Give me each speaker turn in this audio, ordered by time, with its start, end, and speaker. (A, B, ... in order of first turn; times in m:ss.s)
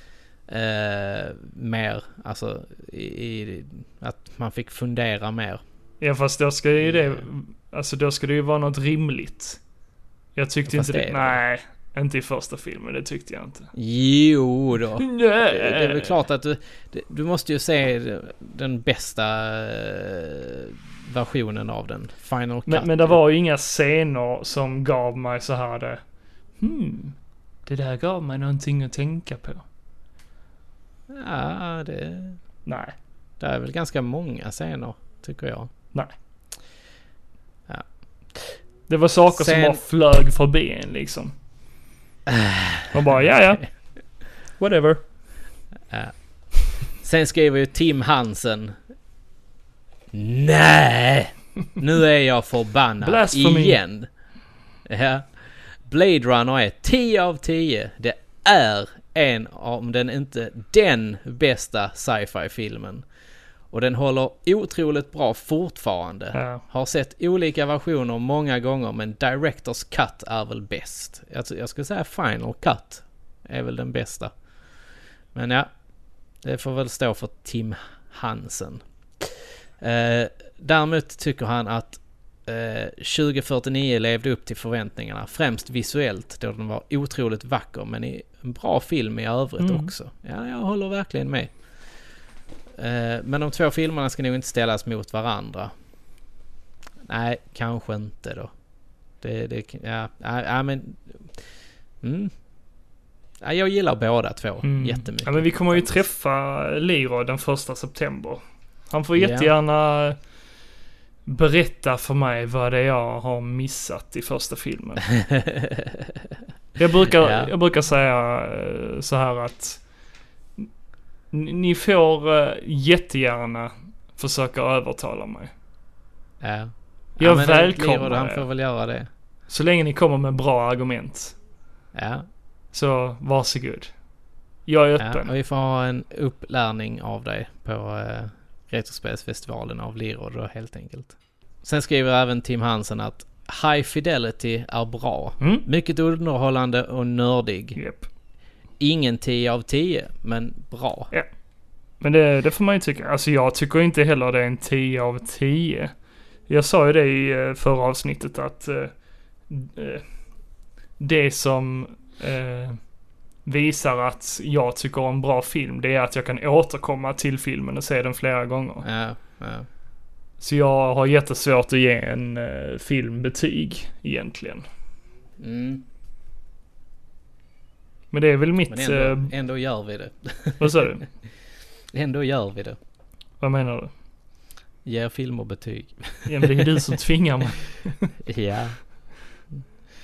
0:00.5-0:05.6 A
0:06.0-0:09.6 B
0:06.8-0:07.2 A
0:10.4-0:13.7 B
0:10.7-0:11.4 A
0:13.7-0:23.2 A
0:15.0-0:16.2 B
0:22.7-0:26.0 B
0:26.6-0:29.6 B
0:31.1-0:32.4 A
0:32.6-0:32.9 B
0:33.4-0:35.7 A
0:37.7-0:38.6 A
0:38.9-0:41.3 B
0:39.3-0:39.8 A
0:42.3-0:43.2 A
0:42.9-0:43.6 B
0:44.6-0:45.0 B
0:46.9-0:48.8 A
0:50.1-0:54.1 A
0:53.0-0:53.8 B
0:54.8-0:55.3 A
0:55.8-1:03.0 A
1:03.7-1:14.3 A
1:06.3-1:06.6 B
1:15.3-1:15.7 A
1:16.4-1:31.5 A
1:29.6-1:29.9 B
1:32.8-1:35.7 A
1:37.0-1:38.5 A
1:39.2-1:41.3 A
1:42.0-1:42.3 A
1:43.4-1:46.0 A
1:44.6-1:50.2 B
1:49.2-1:49.5 A
1:51.2-1:55.0 B
1:55.1-1:56.3 A
1:56.8-1:59.8 B
1:57.1-1:57.5 A
2:01.3-2:05.5 B
2:06.4-2:09.1 A
2:07.2-2:08.4 B
2:09.5-2:11.4 B
2:11.9-2:12.2 A
2:12.7-2:13.9 B
2:14.7-2:15.3 B
2:15.0-2:27.8 A
2:25.4-2:25.6 B
2:27.8-2:28.1 B
2:28.8-2:31.1 A
2:32.0-2:35.9 B
2:36.5-2:38.9 B
2:39.5-2:40.0 B
2:41.0-2:42.8 B
2:43.4-2:48.9 B
2:48.8-2:49.6 A
2:50.4-2:54.6 B
2:55.4-2:55.8 A
2:58.1-2:59.3 B
2:58.7-3:00.9 A
3:00.6-3:01.0 B
3:01.9-3:02.8 A
3:03.4-3:03.9 B
3:04.8-3:06.8 A
3:06.2-3:08.1 B
3:08.2-3:08.8 A